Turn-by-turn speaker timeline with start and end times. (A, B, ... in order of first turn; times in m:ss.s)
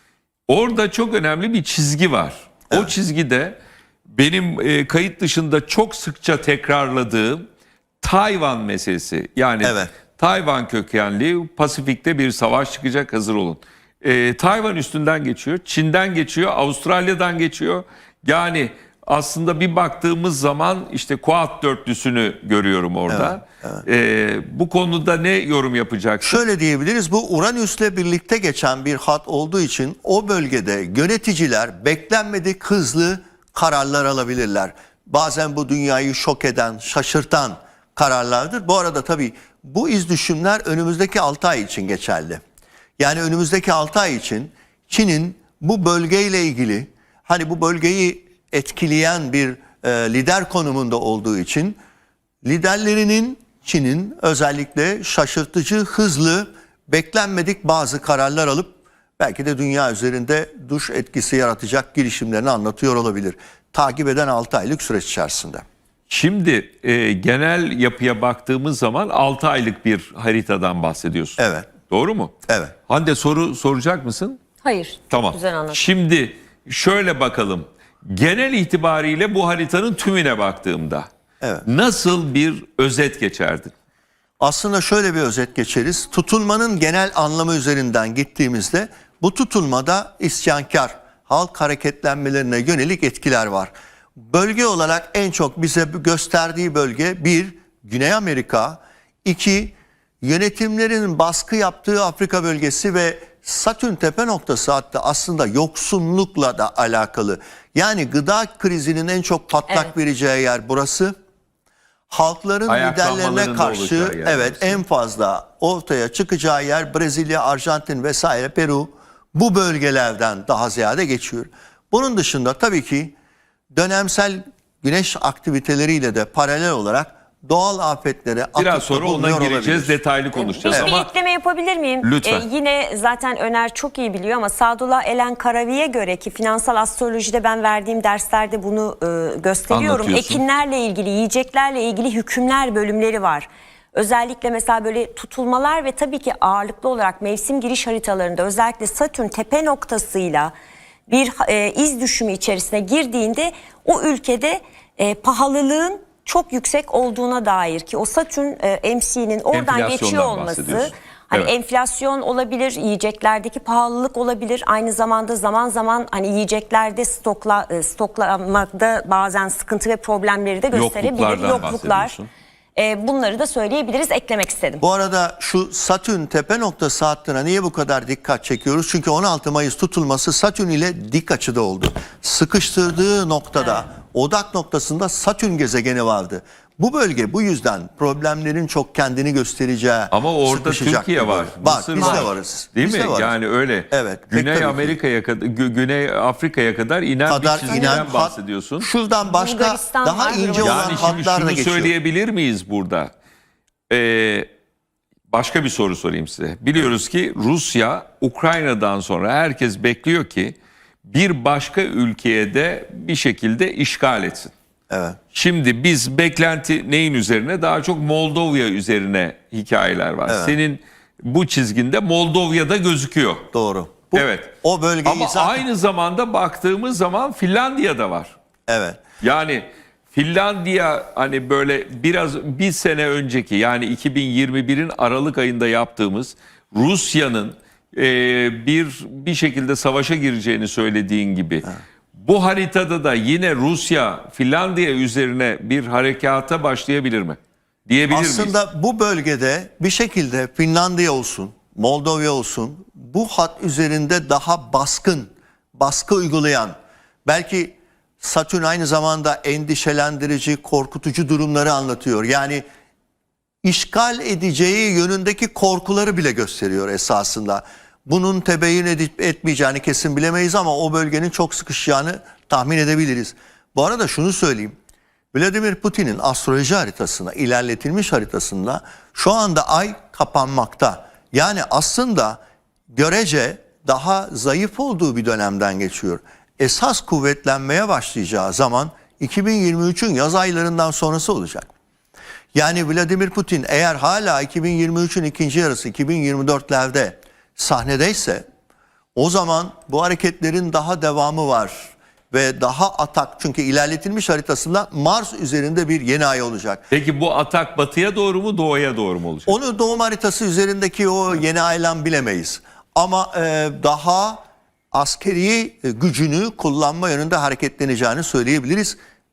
0:00.5-0:07.5 A
0:08.0-0:26.4 A
0:09.6-0:09.9 B
0:23.1-0:23.8 B
0:26.2-0:42.4 B
0:43.0-0:51.8 B
0:52.4-1:05.6 B
1:06.1-1:12.3 A
1:11.4-1:11.7 B
1:12.5-1:12.7 B
1:12.9-1:14.4 A
1:14.6-1:15.8 C
1:15.1-1:21.1 A
1:21.4-1:21.6 B
1:21.6-1:23.7 A
1:24.4-1:51.1 B
1:52.1-2:03.1 B
1:52.7-1:54.8 A
2:03.7-2:10.0 B
2:08.6-2:11.1 A
2:10.3-2:30.5 C
2:12.0-2:12.4 A
2:19.7-2:20.4 A
2:31.1-2:52.2 C
2:39.5-2:41.5 A
2:50.7-2:52.3 A
2:52.8-2:54.8 C
2:54.8-3:13.4 B
3:03.6-3:03.8 C
3:10.1-3:18.9 A
3:12.0-3:12.2 C
3:13.9-3:15.0 B
3:17.3-3:21.9 B
3:17.7-3:18.1 C
3:19.2-3:21.2 C
3:20.6-3:23.1 A
3:23.9-3:24.5 A
3:25.3-3:34.5 A
3:34.9-3:35.2 B
3:35.3-3:43.5 A
3:40.3-3:40.6 B
3:43.5-3:45.6 B
3:44.1-3:48.4 A
3:48.7-3:49.0 B
3:49.2-4:08.5 A
4:08.1-4:16.7 B
4:17.2-4:22.6 B
4:23.6-4:34.7 B
4:35.3-4:42.4 B
4:42.9-4:51.7 B
4:52.5-4:58.4 B
4:59.2-5:06.8 B
5:06.9-5:09.5 A
5:09.5-5:19.0 B